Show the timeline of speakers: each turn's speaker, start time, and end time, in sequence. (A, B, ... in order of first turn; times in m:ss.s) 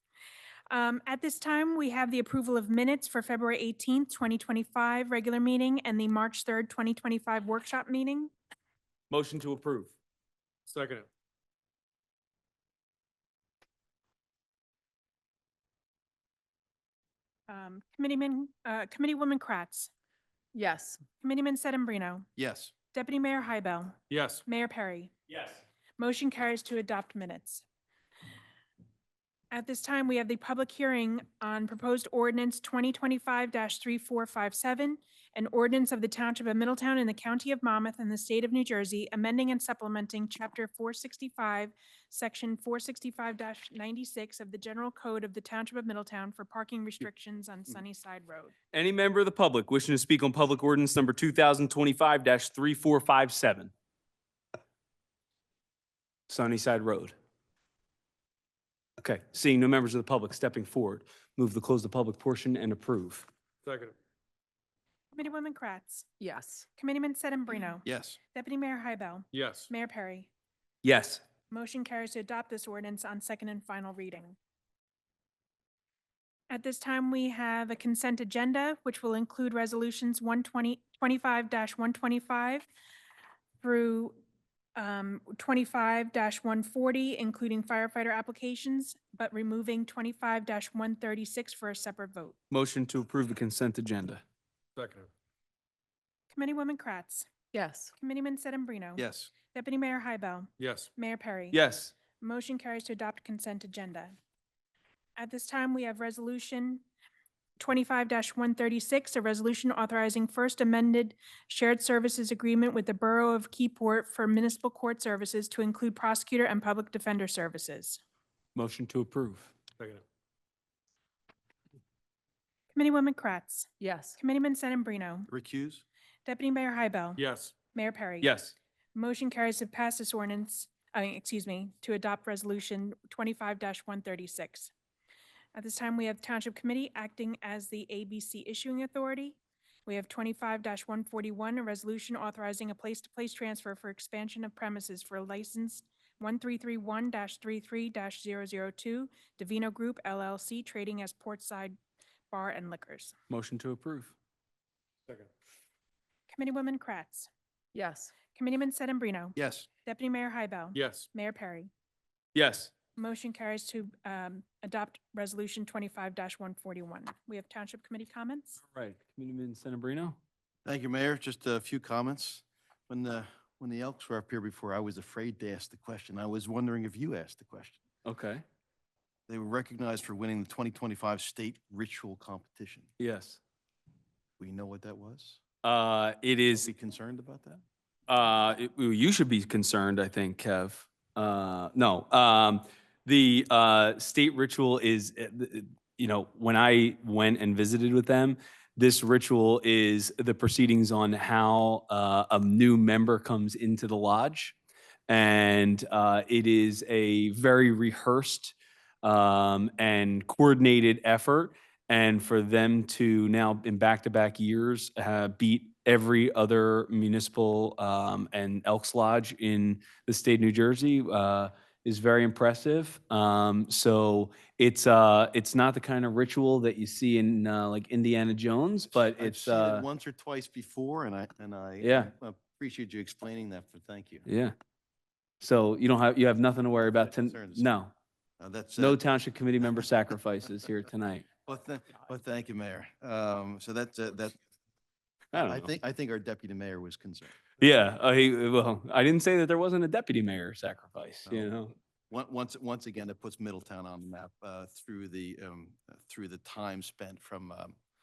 0:00.7-0:08.3 A
0:09.1-0:09.9 B
0:10.7-0:11.1 C
0:17.5-0:19.9 A
0:20.5-0:21.0 D
0:21.2-0:22.3 A
0:22.4-0:22.7 E
0:22.9-0:25.1 A
0:24.1-0:24.4 C
0:26.0-0:27.6 A
0:29.5-0:48.5 A
0:48.7-0:53.7 B
0:56.3-0:57.1 B
0:59.0-1:03.3 B
1:03.7-1:04.0 C
1:05.1-1:06.1 A
1:06.2-1:06.7 D
1:06.8-1:10.3 A
1:07.8-1:08.2 E
1:09.3-1:09.7 C
1:10.8-1:11.2 B
1:11.5-1:14.4 A
1:16.5-1:22.7 A
1:23.6-1:24.2 A
1:24.8-1:32.4 A
1:32.5-1:34.2 B
1:34.8-1:35.1 C
1:36.3-1:37.3 A
1:37.5-1:37.9 D
1:38.0-1:41.6 A
1:39.0-1:39.3 E
1:40.6-1:40.9 C
1:41.5-1:41.9 B
1:42.2-1:44.2 A
1:45.2-1:46.8 A
1:47.6-1:58.0 A
1:58.6-1:59.5 B
2:02.7-2:05.3 A
2:03.8-2:04.2 D
2:05.3-2:05.8 E
2:06.2-2:07.2 A
2:07.2-2:07.5 C
2:07.7-2:08.3 A
2:08.2-2:08.6 B
2:09.0-2:14.7 A
2:15.6-2:31.8 A
2:32.3-2:33.2 A
2:33.3-2:34.1 B
2:36.3-2:37.3 A
2:37.7-2:38.1 D
2:38.3-2:41.7 A
2:39.4-2:39.7 E
2:40.8-2:41.1 C
2:42.4-2:42.7 B
2:43.0-2:48.6 A
2:48.6-2:50.2 B
2:50.6-2:57.8 E
2:58.0-2:58.4 B
2:59.3-3:02.9 E
3:03.0-3:03.4 B
3:04.4-3:05.4 E
3:05.6-3:06.7 B
3:06.6-3:07.6 E
3:08.1-3:24.6 B
3:25.1-3:49.9 B
3:49.0-3:54.3 E
3:51.8-3:52.1 B
3:54.3-3:54.5 B
3:55.4-3:57.9 B
3:57.0-3:57.7 E
3:58.4-3:59.0 E
3:58.8-4:01.3 B
4:01.5-4:04.4 E
4:05.3-4:05.7 B
4:05.3-4:07.4 E
4:07.6-4:11.7 B
4:11.3-4:11.6 E
4:12.1-4:17.8 E